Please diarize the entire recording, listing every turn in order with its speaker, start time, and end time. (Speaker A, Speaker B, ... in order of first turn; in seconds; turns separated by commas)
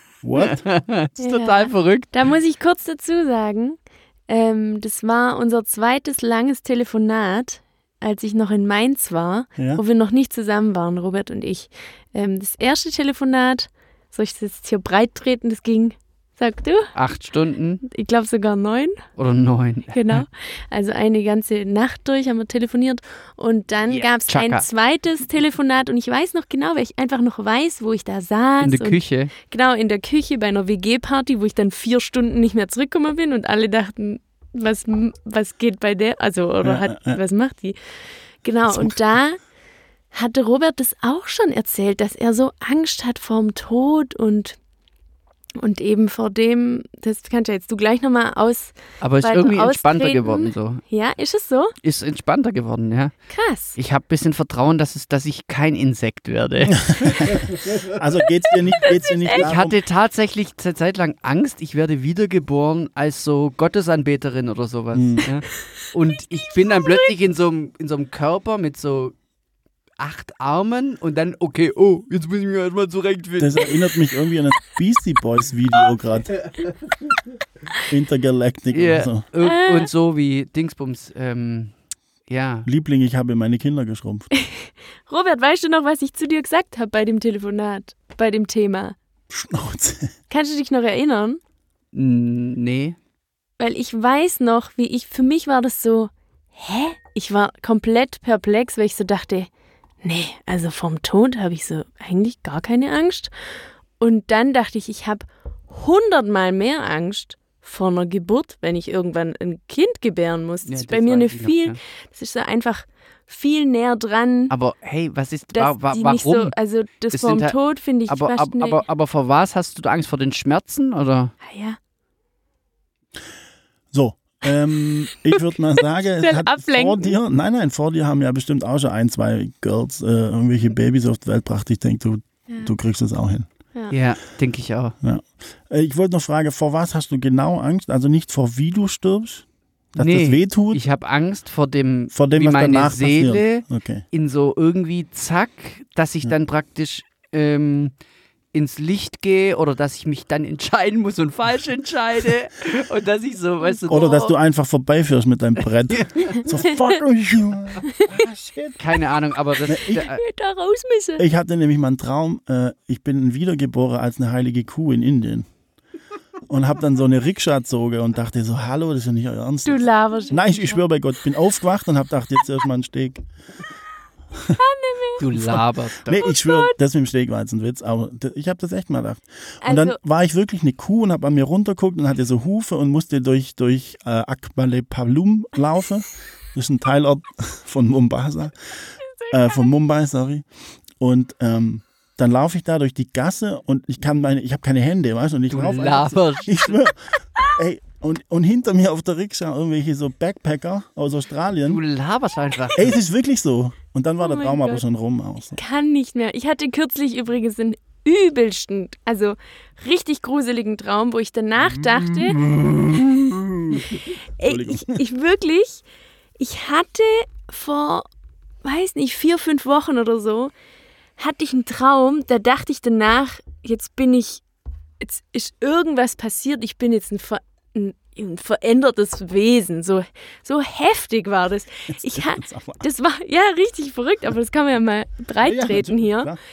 Speaker A: 0.2-0.6, Speaker B: 0.3-2.1, Speaker C: 1.2-16.9, Speaker A: 9.6-9.8, Speaker B: 16.9-17.8, Speaker C: 17.8-19.0, Speaker B: 19.1-20.2, Speaker C: 19.9-37.8, Speaker B: 23.9-24.6, Speaker B: 28.6-29.3, Speaker A: 36.6-37.2, Speaker C: 38.4-39.4, Speaker A: 38.7-38.9, Speaker C: 40.1-44.6, Speaker C: 45.6-51.7, Speaker B: 49.0-50.8, Speaker B: 51.8-53.1, Speaker C: 53.3-53.8, Speaker B: 53.7-57.4, Speaker A: 56.7-59.8, Speaker C: 58.8-59.5, Speaker B: 59.4-69.1, Speaker A: 64.9-65.2, Speaker C: 66.4-67.1, Speaker B: 70.0-73.7, Speaker A: 73.4-76.4, Speaker A: 77.9-79.2, Speaker B: 78.7-81.7, Speaker C: 79.4-79.9, Speaker B: 82.3-82.7, Speaker A: 82.6-84.3, Speaker C: 84.3-89.0, Speaker A: 89.3-90.1, Speaker C: 90.3-91.4, Speaker B: 91.9-93.0, Speaker C: 93.6-99.5, Speaker C: 100.0-103.3, Speaker C: 104.0-114.5, Speaker B: 110.7-111.8, Speaker B: 114.5-116.5, Speaker C: 115.5-118.8, Speaker B: 117.1-117.6, Speaker B: 118.1-121.3, Speaker C: 121.4-121.8, Speaker A: 123.9-133.5, Speaker C: 125.3-127.1, Speaker B: 133.9-134.9, Speaker A: 135.0-140.8, Speaker B: 140.0-147.9, Speaker A: 142.1-144.0, Speaker B: 148.5-154.3, Speaker A: 153.9-158.8, Speaker B: 155.9-156.4, Speaker C: 157.9-158.2, Speaker B: 158.8-160.2, Speaker A: 159.7-160.0, Speaker C: 159.9-161.2, Speaker A: 161.2-165.4, Speaker A: 166.5-173.2, Speaker C: 169.6-170.8, Speaker C: 174.5-175.2, Speaker B: 175.2-176.2, Speaker A: 175.3-190.4, Speaker C: 176.2-176.7, Speaker C: 179.6-180.0, Speaker C: 189.2-189.7, Speaker A: 191.0-201.8, Speaker B: 195.5-196.8, Speaker B: 201.7-203.0, Speaker A: 202.7-205.6, Speaker C: 204.2-204.8, Speaker C: 205.5-212.4, Speaker A: 211.7-215.0, Speaker C: 213.8-215.8, Speaker C: 216.4-218.1, Speaker C: 218.6-220.5, Speaker C: 221.2-224.4, Speaker C: 225.0-236.3, Speaker A: 232.1-232.8, Speaker A: 235.4-236.4